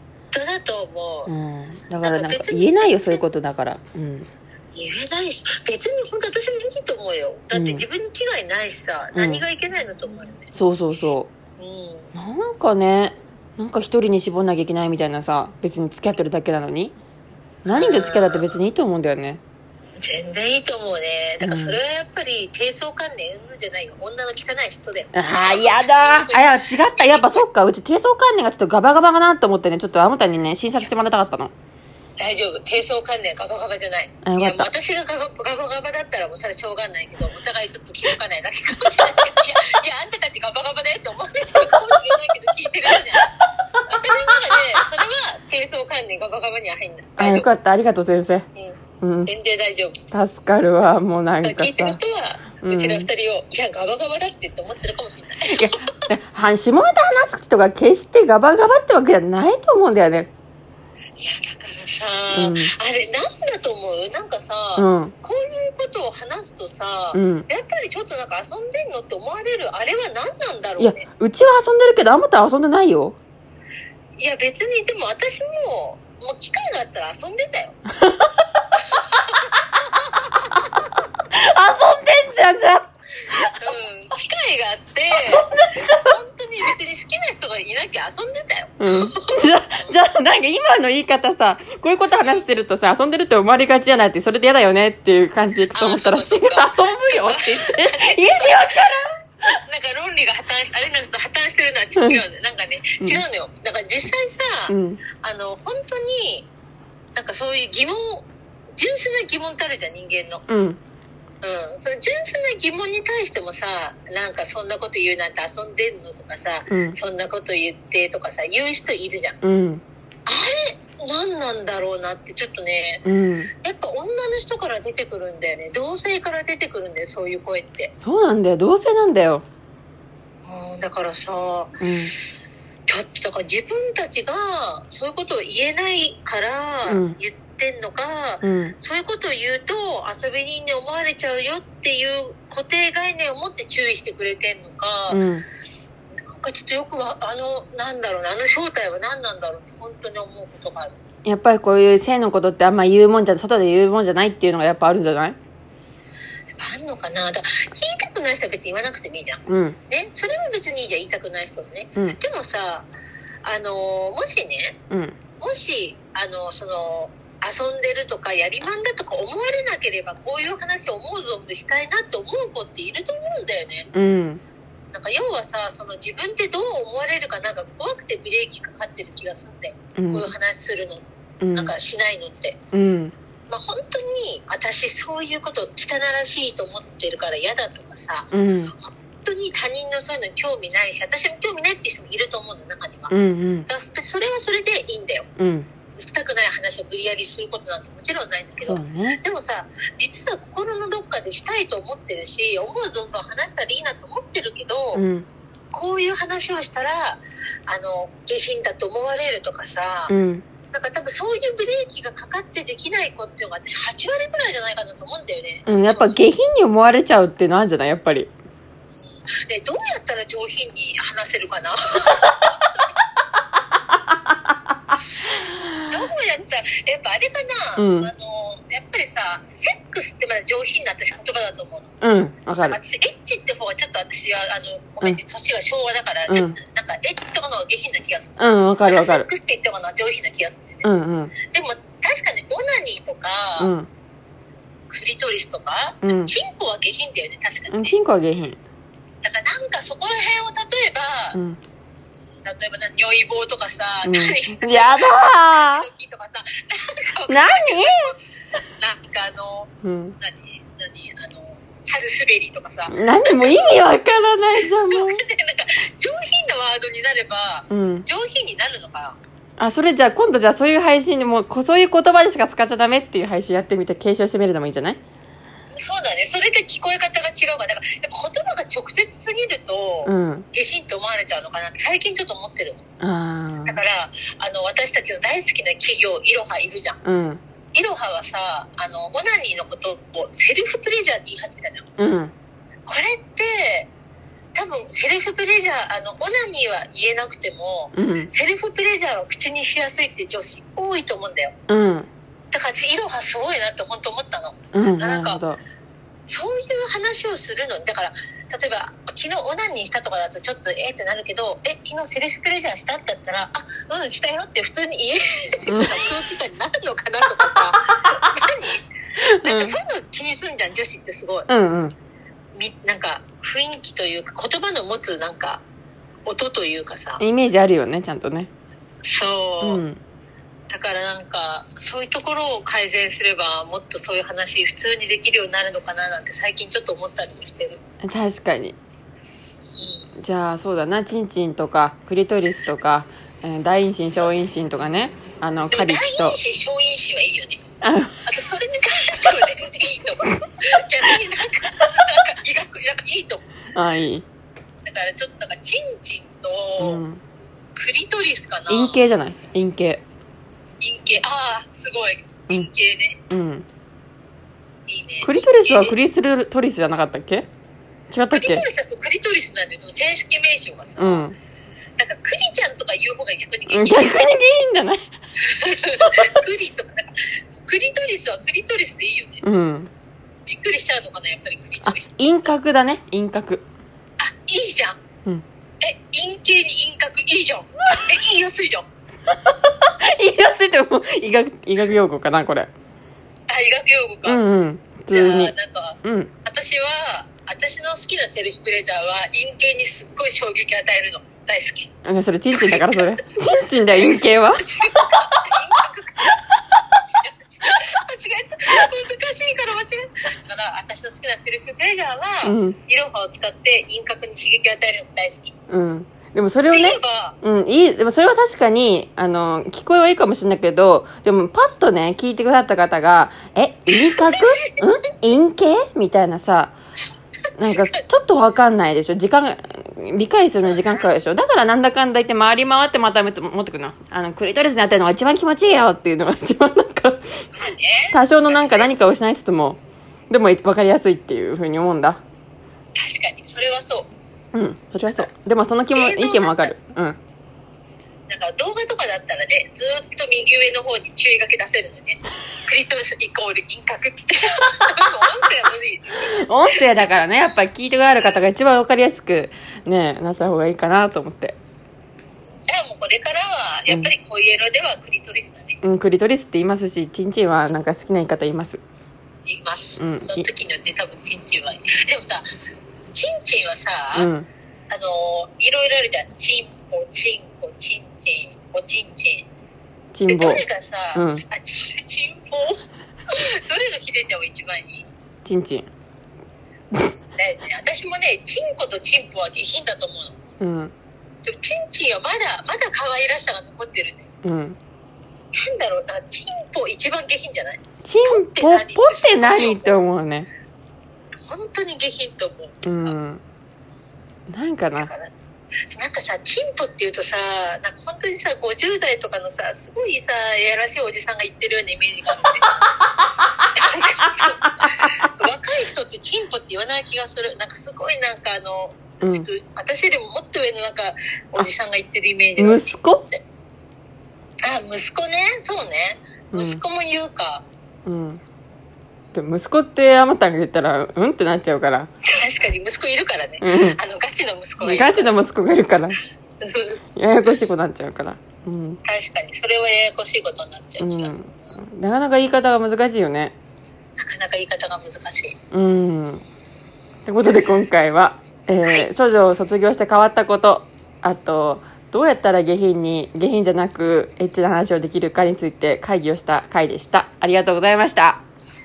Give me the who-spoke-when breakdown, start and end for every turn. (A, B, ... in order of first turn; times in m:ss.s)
0:00.3-0:01.3 A
0:01.3-0:04.3 B
0:02.0-0:03.2 A
0:04.7-0:12.1 A
0:07.5-0:07.9 B
0:09.2-0:09.4 B
0:10.5-0:11.3 B
0:12.2-0:17.0 B
0:17.7-0:18.6 A
0:17.7-0:19.4 B
0:20.0-0:27.4 A
0:21.4-0:21.8 B
0:25.1-0:31.5 B
0:32.2-0:43.3 A
0:34.2-0:34.7 B
0:43.9-0:47.5 A
0:47.2-0:48.5 B
0:48.6-0:50.0 A
0:49.0-0:49.3 B
0:50.1-0:52.0 B
0:51.4-0:55.9 A
0:52.6-0:53.1 B
0:55.5-1:00.3 B
1:01.2-1:11.1 A
1:02.4-1:02.7 B
1:04.8-1:05.1 B
1:07.1-1:07.5 B
1:10.8-1:13.2 B
1:14.2-1:17.8 A
1:18.0-1:18.4 B
1:18.8-1:20.9 A
1:21.3-1:23.6 B
1:23.5-1:25.4 A
1:25.1-1:26.2 B
1:26.1-1:30.0 A
1:28.8-1:39.1 B
1:35.7-1:38.9 A
1:39.4-1:46.5 A
1:42.0-1:42.2 B
1:44.7-1:45.0 B
1:47.2-1:50.4 A
1:50.5-1:50.8 B
1:51.4-1:59.4 A
1:56.7-1:57.0 B
1:59.4-1:59.8 B
2:00.3-2:03.0 A
2:03.0-2:03.5 B
2:03.6-2:07.9 A
2:08.0-2:09.4 B
2:10.4-2:11.8 A
2:11.8-2:12.1 B
2:12.9-2:25.2 A
2:16.9-2:17.2 B
2:18.4-2:18.8 B
2:25.1-2:25.5 B
2:26.2-2:31.0 A
2:31.2-2:35.4 B
2:36.6-2:42.9 A
2:39.5-2:39.8 B
2:43.4-2:44.8 A
2:44.9-2:45.2 B
2:45.4-2:53.9 A
2:53.9-2:54.4 B
2:54.9-3:02.6 A
3:00.0-3:00.3 B
3:01.4-3:01.7 B
3:02.7-3:03.1 B
3:03.5-3:13.1 A
3:08.3-3:08.7 B
3:13.1-3:13.7 B
3:13.7-3:15.3 A
3:15.4-3:15.7 B
3:16.0-3:25.0 A
3:18.6-3:19.2 B
3:24.9-3:25.3 B
3:25.7-3:30.1 A
3:30.1-3:30.4 B
3:30.7-3:36.2 A
3:35.7-3:38.3 B
3:39.0-3:42.8 A
3:45.2-3:51.9 A
3:47.8-3:48.1 B
3:52.0-3:52.8 B
3:52.6-4:00.9 A
3:56.3-3:56.6 B
3:58.4-3:59.3 B
4:00.8-4:01.4 B
4:01.4-4:03.7 A
4:03.6-4:03.9 B
4:04.9-4:08.0 A
4:06.0-4:06.3 B
4:07.7-4:08.6 B
4:09.2-4:11.4 A
4:11.3-4:11.6 B
4:12.4-4:18.2 A
4:14.0-4:15.9 B
4:17.3-4:18.2 B
4:18.8-4:23.8 A
4:19.8-4:20.2 B
4:22.9-4:25.2 B
4:24.6-4:29.2 A
4:27.7-4:28.1 B
4:29.6-4:35.0 B
4:35.7-4:42.8 A
4:40.0-4:40.5 B
4:43.0-4:43.8 B
4:43.7-4:47.0 A
4:47.0-4:47.4 B
4:47.7-4:51.9 A
4:52.0-4:52.3 B
4:52.9-4:53.9 A
4:54.5-5:01.6 A
4:57.9-4:58.3 B
5:01.7-5:02.1 B
5:02.5-5:05.4 A
5:04.7-5:05.6 B
5:06.3-5:18.9 A
5:15.7-5:16.0 B
5:19.2-5:19.8 B
5:19.4-5:21.5 A
5:21.5-5:22.0 B
5:22.6-5:25.6 A
5:26.3-5:27.2 A
5:27.2-5:28.5 B
5:29.0-5:29.8 A
5:29.6-5:30.0 B
5:30.7-5:37.8 A
5:38.0-5:38.8 B
5:39.8-5:40.1 A
5:40.2-5:46.4 B
5:45.7-5:47.6 A
5:47.8-5:48.3 B
5:48.2-5:53.5 A
5:53.7-5:54.3 B
5:54.8-5:57.0 A
5:56.8-5:57.2 B
5:57.8-5:59.0 A
5:58.7-6:00.0 B
6:00.8-6:03.2 A
6:03.3-6:03.7 B
6:04.9-6:06.0 A
6:05.2-6:07.5 B
6:08.1-6:08.7 B
6:08.3-6:11.3 A
6:11.0-6:11.4 B
6:12.0-6:14.3 A
6:13.7-6:15.1 B
6:15.4-6:19.4 A
6:16.0-6:16.3 B
6:19.4-6:19.9 B
6:20.5-6:22.5 A
6:21.9-6:23.6 B
6:24.2-6:25.0 A
6:25.8-6:28.9 A
6:29.3-6:32.7 B
6:33.5-6:34.4 A
6:34.2-6:36.3 B
6:35.1-6:41.9 A
6:42.0-6:44.7 B
6:42.5-6:43.4 A
6:43.9-6:55.6 A
6:52.4-6:52.8 B
6:55.7-7:06.7 B
6:56.7-6:57.4 A
7:03.9-7:04.7 A
7:07.6-7:17.5 B
7:07.6-7:08.0 A
7:10.6-7:11.1 A
7:17.5-7:19.0 A
7:18.1-7:22.2 B
7:23.0-7:24.1 A
7:24.5-7:27.2 B
7:25.9-7:26.7 A
7:28.3-7:37.1 A
7:36.2-7:41.6 B
7:42.5-7:45.8 A
7:43.9-7:44.1 B
7:45.8-7:48.8 B
7:49.5-7:52.5 A
7:50.0-7:50.5 B
7:53.1-7:54.3 A
7:54.1-7:54.5 B
7:54.9-7:59.5 A
8:00.1-8:01.4 B
8:00.3-8:05.1 A
8:05.4-8:05.9 B
8:07.4-8:10.4 A
8:10.6-8:10.9 B
8:11.4-8:14.3 A
8:14.4-8:14.8 B
8:15.5-8:20.0 A
8:18.0-8:20.5 B
8:21.4-8:23.2 A
8:22.8-8:23.4 B
8:24.5-8:25.1 B
8:25.0-8:25.3 A
8:25.9-8:32.7 A
8:33.6-8:35.3 B
8:33.7-8:43.4 A
8:39.2-8:39.5 B
8:42.6-8:43.3 B
8:44.6-8:47.6 A
8:46.5-8:46.8 B
8:48.1-8:48.4 B
8:49.3-8:52.1 B
8:52.2-8:55.4 A
8:53.6-8:54.0 B
8:54.8-8:56.2 B
8:56.6-8:57.0 A
8:57.2-8:59.0 B
8:59.0-9:01.8 A
9:01.0-9:03.5 B
9:04.2-9:05.6 A
9:05.7-9:06.4 B
9:07.3-9:18.4 B
9:08.8-9:09.1 A